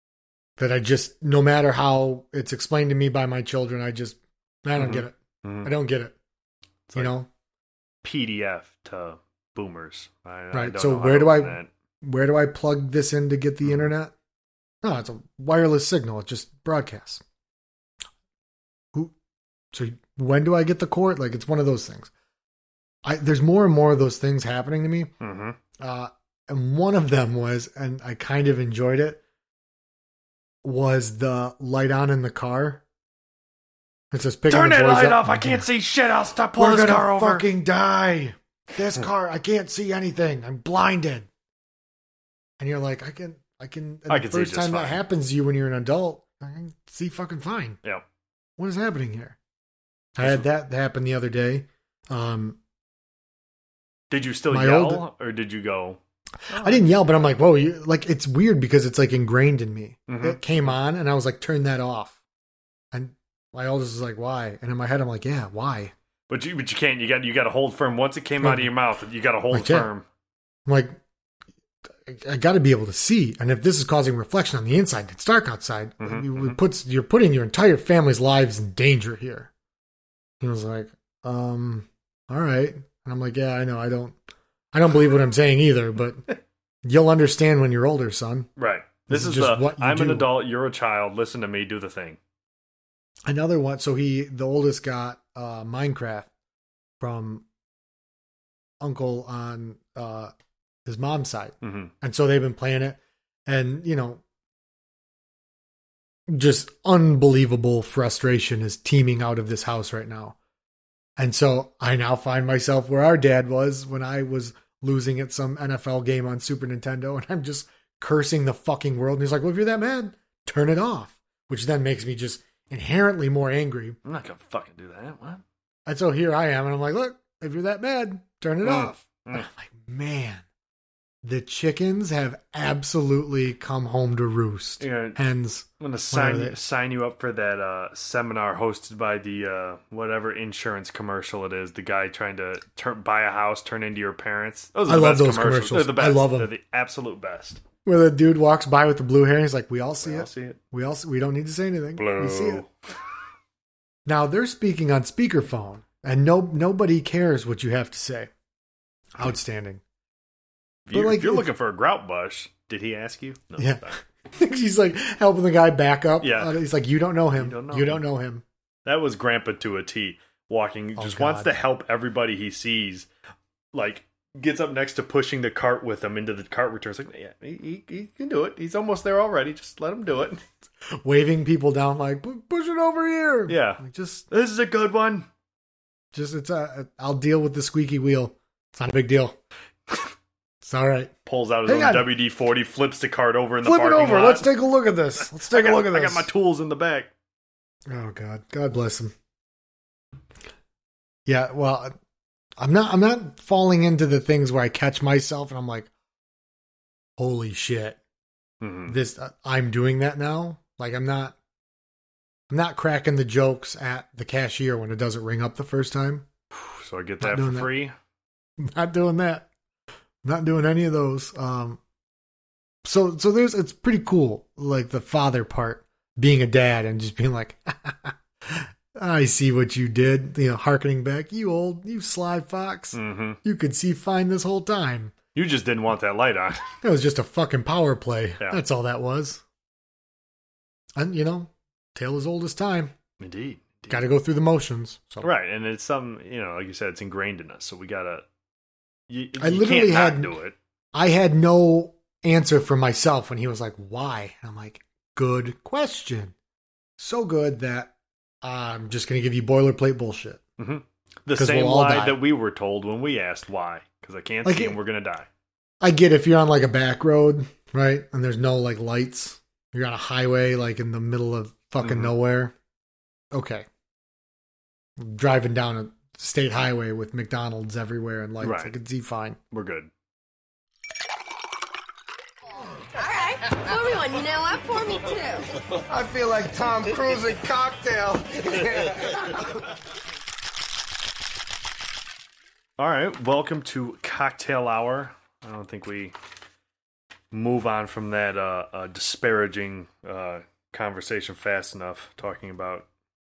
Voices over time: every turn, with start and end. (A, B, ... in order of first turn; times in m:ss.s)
0:00.6-0:06.2 A
0:04.8-0:05.7 B
0:06.9-0:07.1 B
0:06.9-0:07.3 A
0:08.0-0:11.7 B
0:10.5-0:14.1 A
0:13.6-0:13.9 B
0:14.8-0:17.2 A
0:19.7-0:22.1 A
0:23.0-0:25.1 A
0:25.2-0:25.6 B
0:25.8-0:29.2 A
0:30.6-0:32.8 A
0:34.1-0:35.6 A
0:34.5-0:37.5 B
0:36.6-0:41.3 A
0:42.6-0:47.8 A
0:44.1-0:45.0 B
0:48.6-0:49.4 A
0:50.2-0:52.6 A
0:50.2-0:50.5 B
0:54.1-0:57.3 B
0:54.5-0:55.1 A
0:56.6-1:02.2 A
1:00.1-1:00.4 B
1:02.9-1:05.9 A
1:06.3-1:10.0 B
1:08.4-1:08.7 A
1:09.5-1:09.9 A
1:10.7-1:11.0 A
1:12.0-1:19.5 A
1:16.0-1:16.6 B
1:20.4-1:24.2 A
1:24.7-1:26.3 A
1:26.8-1:28.5 A
1:28.6-1:32.2 B
1:29.1-1:30.3 A
1:33.3-1:36.3 A
1:37.0-1:37.4 A
1:38.8-1:40.3 A
1:40.8-1:44.2 A
1:41.6-1:41.9 B
1:46.3-1:50.4 A
1:51.2-2:04.0 A
2:04.0-2:05.4 B
2:05.9-2:10.4 A
2:08.6-2:09.5 B
2:11.2-2:16.6 A
2:14.8-2:15.2 B
2:15.8-2:27.6 B
2:24.9-2:26.5 A
2:27.8-2:32.6 A
2:30.0-2:30.6 B
2:32.0-2:32.7 B
2:34.1-2:38.3 A
2:39.2-2:39.8 A
2:40.9-2:44.0 B
2:40.9-2:41.5 A
2:43.6-2:48.4 A
2:46.2-2:46.6 B
2:47.4-2:48.0 B
2:48.8-2:53.1 B
2:51.0-2:51.5 A
2:53.7-3:00.4 B
3:01.0-3:04.3 A
3:03.5-3:05.3 B
3:06.1-3:09.4 A
3:10.6-3:11.1 A
3:11.3-3:14.5 B
3:11.7-3:12.1 A
3:13.6-3:16.3 A
3:15.2-3:17.1 B
3:17.9-3:19.1 A
3:21.3-3:21.9 A
3:22.6-3:25.9 A
3:27.2-3:28.0 A
3:28.6-3:29.0 B
3:28.9-3:31.4 A
3:32.5-3:36.3 A
3:36.5-3:38.0 B
3:37.2-3:37.7 A
3:38.6-3:39.5 A
3:40.2-3:41.8 A
3:42.8-3:55.2 A
3:52.9-3:53.4 B
3:55.4-3:56.7 B
3:56.8-3:59.4 A
4:01.0-4:02.9 A
4:03.2-4:04.1 B
4:03.9-4:05.3 A
4:05.2-4:08.2 B
4:09.1-4:10.6 B
4:09.4-4:10.4 A
4:10.9-4:16.3 A
4:17.0-4:20.4 A
4:20.6-4:25.3 B
4:21.3-4:22.2 A
4:24.4-4:24.8 A
4:25.8-4:32.5 A
4:31.8-4:32.1 B
4:33.3-4:33.7 A
4:35.0-4:39.4 A
4:38.4-4:38.8 B
4:39.5-4:39.9 B
4:43.0-4:45.5 C
4:45.9-4:49.7 D
4:52.8-4:56.2 B
4:57.3-5:02.9 B